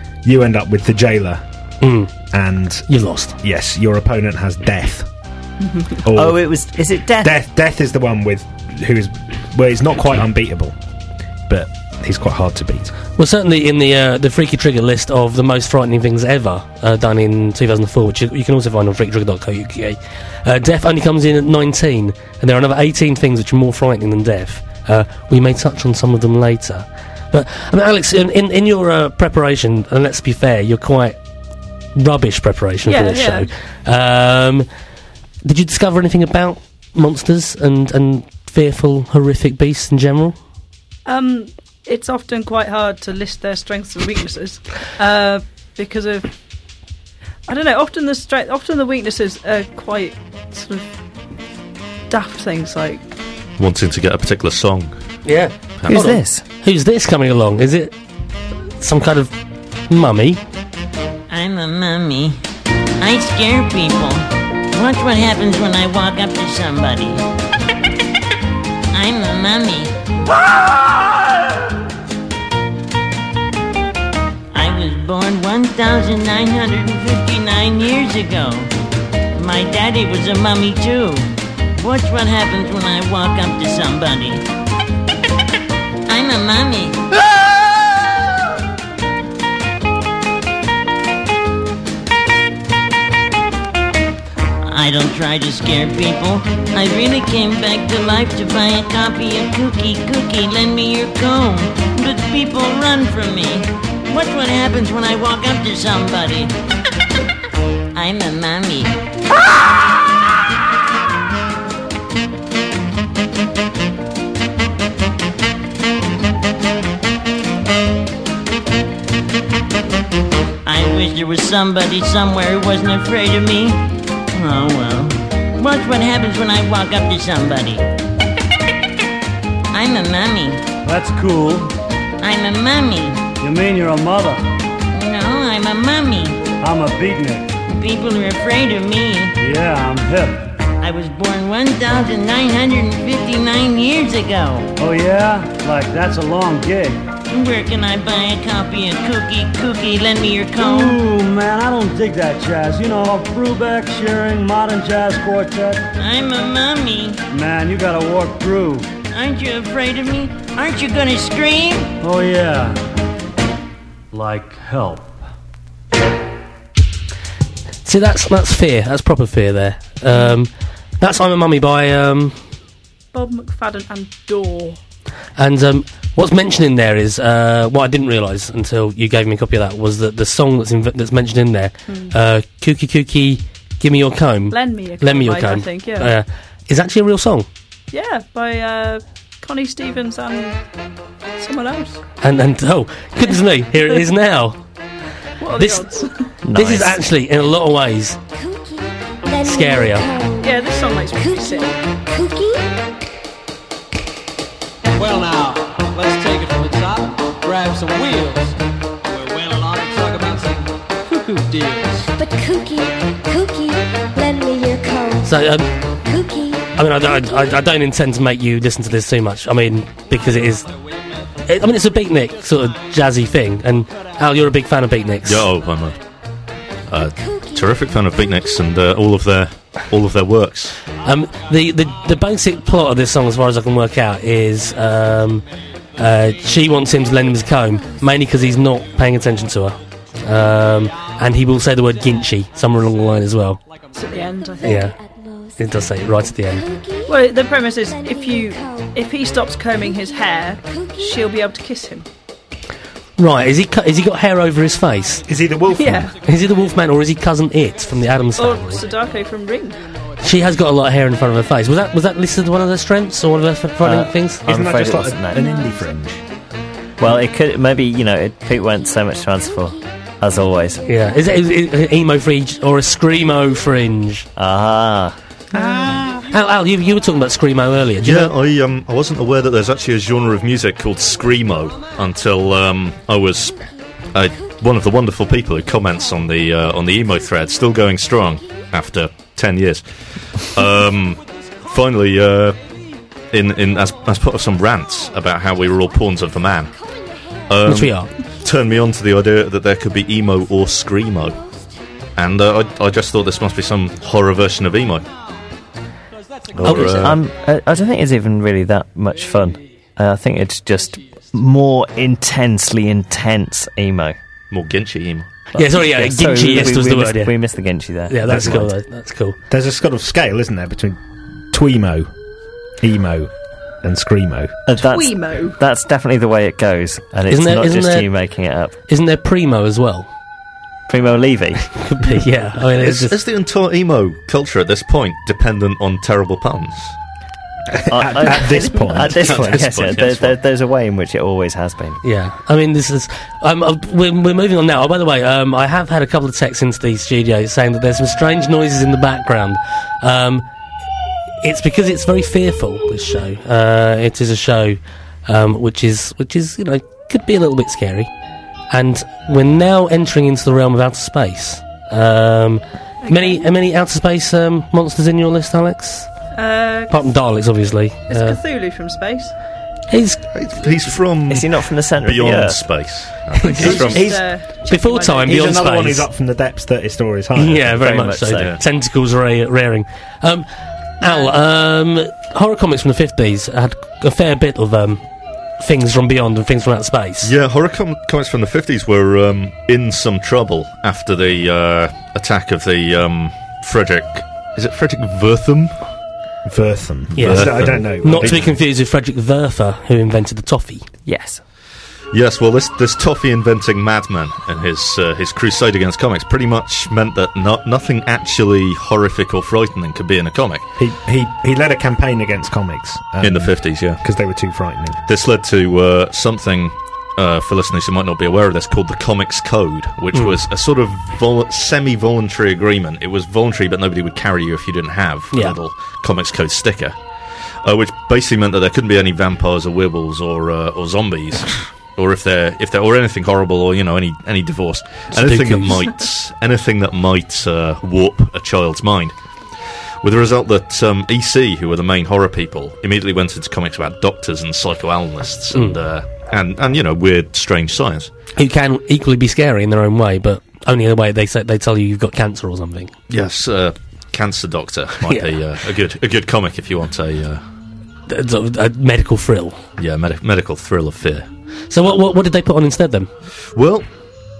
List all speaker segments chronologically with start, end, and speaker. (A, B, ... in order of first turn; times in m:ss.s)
0:00.2-0:01.4 A
0:01.8-0:02.1 B
0:02.3-0:02.9 A
0:02.9-0:03.4 B
0:03.4-0:05.0 A
0:06.0-0:06.4 A
0:06.1-0:07.4 C
0:07.2-0:10.7 A
0:11.5-0:12.9 A
0:13.2-0:31.2 B
0:32.0-0:34.7 B
0:32.8-0:33.5 D
0:35.4-0:40.4 B
0:41.0-0:46.3 D
0:47.5-0:50.9 D
0:52.1-0:53.0 D
0:53.6-0:55.0 E
0:55.2-0:57.9 B
0:55.9-0:56.4 C
0:58.8-0:59.3 B
0:59.9-1:00.4 B
1:01.3-1:02.4 F
1:03.0-1:07.2 F
1:08.9-1:09.9 F
1:14.5-1:18.7 F
1:19.3-1:24.4 F
1:26.0-1:27.0 F
1:34.6-1:46.5 F
1:47.9-1:49.0 F
2:00.6-2:07.9 F
2:09.7-2:10.6 F
2:10.8-2:11.7 G
2:12.2-2:13.3 F
2:13.4-2:14.4 G
2:14.9-2:16.4 F
2:16.6-2:17.5 G
2:17.7-2:19.4 F
2:19.4-2:20.5 G
2:20.8-2:24.7 F
2:24.8-2:27.0 G
2:27.3-2:31.0 F
2:30.6-2:35.9 G
2:36.0-2:37.2 F
2:37.3-2:38.9 G
2:39.1-2:41.9 F
2:42.0-2:42.8 G
2:44.1-2:45.2 G
2:47.8-2:52.4 B
2:53.1-2:54.8 D
2:55.4-3:07.5 B
3:01.9-3:02.1 D
3:04.5-3:06.1 D
3:07.9-3:10.6 D
3:11.4-3:12.0 D
3:12.2-3:14.6 B
3:15.4-3:16.3 D
3:15.6-3:15.9 B
3:16.4-3:17.0 C
3:16.5-3:18.2 B
3:18.3-3:22.7 H
3:19.4-3:20.1 B
3:20.4-3:21.8 D
3:24.9-3:30.8 I
3:31.1-3:31.4 D
3:31.4-3:32.0 I
3:32.1-3:37.6 H
3:35.2-3:35.7 B
3:36.7-3:40.7 B
3:40.1-3:41.4 I
3:41.4-3:45.5 B
3:45.2-3:46.0 E
3:46.9-3:50.8 E
3:47.0-3:48.7 H
3:51.0-4:03.6 B
3:51.2-3:52.3 I
3:56.0-3:57.5 I
3:57.8-3:58.0 H
4:00.4-4:04.3 I
4:03.9-4:04.8 D
4:04.3-4:11.3 H
4:04.6-4:04.9 B
4:05.6-4:06.6 B
4:07.0-4:12.0 D
4:13.2-4:15.2 B
4:15.0-4:15.3 I
4:15.2-4:16.1 A
4:15.7-4:16.2 D
4:16.0-4:17.0 I
4:16.2-4:18.8 B
4:18.4-4:19.8 D
4:18.6-4:19.1 I
4:20.0-4:21.0 I
4:20.2-4:24.5 B
4:23.8-4:25.5 C
4:24.4-4:26.2 A
4:25.3-4:25.9 H
4:27.0-4:30.8 C
4:28.4-4:31.7 H
4:30.8-4:34.2 B
4:34.4-4:35.2 C
4:35.6-4:36.0 D
4:36.3-4:38.3 B
4:38.0-4:43.6 E
4:43.5-4:48.7 H
4:44.1-4:49.8 E
4:50.4-4:52.6 E
4:53.3-4:56.7 E
4:56.7-4:57.6 H
4:57.5-5:01.4 E
4:57.6-4:58.1 B
5:02.2-5:05.1 E
5:06.2-5:06.5 I
5:06.5-5:07.2 E
5:06.6-5:07.2 B
5:06.7-5:14.2 C
5:14.5-5:15.5 E
5:15.5-5:17.4 B
5:15.7-5:18.7 C
5:18.1-5:19.4 B
5:18.3-5:18.7 A
5:19.5-5:21.0 A
5:21.5-5:22.1 A
5:22.8-5:23.3 A
5:23.8-5:24.6 A
5:24.7-5:28.7 C
5:24.8-5:25.6 D
5:27.3-5:28.1 B
5:28.9-5:30.1 B
5:30.9-5:31.7 C
5:31.7-5:33.2 B
5:32.8-5:37.0 E
5:37.7-5:39.8 A
5:37.9-5:42.0 C
5:39.0-5:40.4 E
5:42.0-5:50.4 B
5:51.4-5:58.1 B
5:58.7-6:06.1 B
6:03.0-6:03.5 D
6:06.3-6:07.1 D
6:06.9-6:08.4 B
6:08.1-6:09.3 D
6:09.9-6:10.2 B
6:10.3-6:14.1 E
6:11.3-6:12.6 C
6:13.3-6:14.0 B
6:13.5-6:15.6 D
6:13.6-6:14.2 A
6:14.7-6:16.1 B
6:15.2-6:17.8 A
6:17.4-6:20.4 B
6:17.7-6:18.6 C
6:18.4-6:18.6 E
6:21.0-6:25.0 B
6:21.0-6:21.3 D
6:25.6-6:27.3 B
6:27.2-6:35.8 E
6:36.4-6:38.5 A
6:37.2-6:40.8 B
6:37.2-6:38.5 E
6:41.0-6:41.4 C
6:42.1-6:50.6 E
6:50.8-6:55.0 A
6:53.2-6:54.0 E
6:55.1-7:07.0 E
7:07.6-7:19.1 E
7:15.1-7:15.8 B
7:20.0-7:28.1 E
7:28.4-7:32.9 B
7:33.1-7:37.4 E
7:35.0-7:35.3 B
7:38.1-7:39.6 B
7:39.8-7:41.2 E
7:41.7-7:43.1 B
7:43.5-7:43.9 E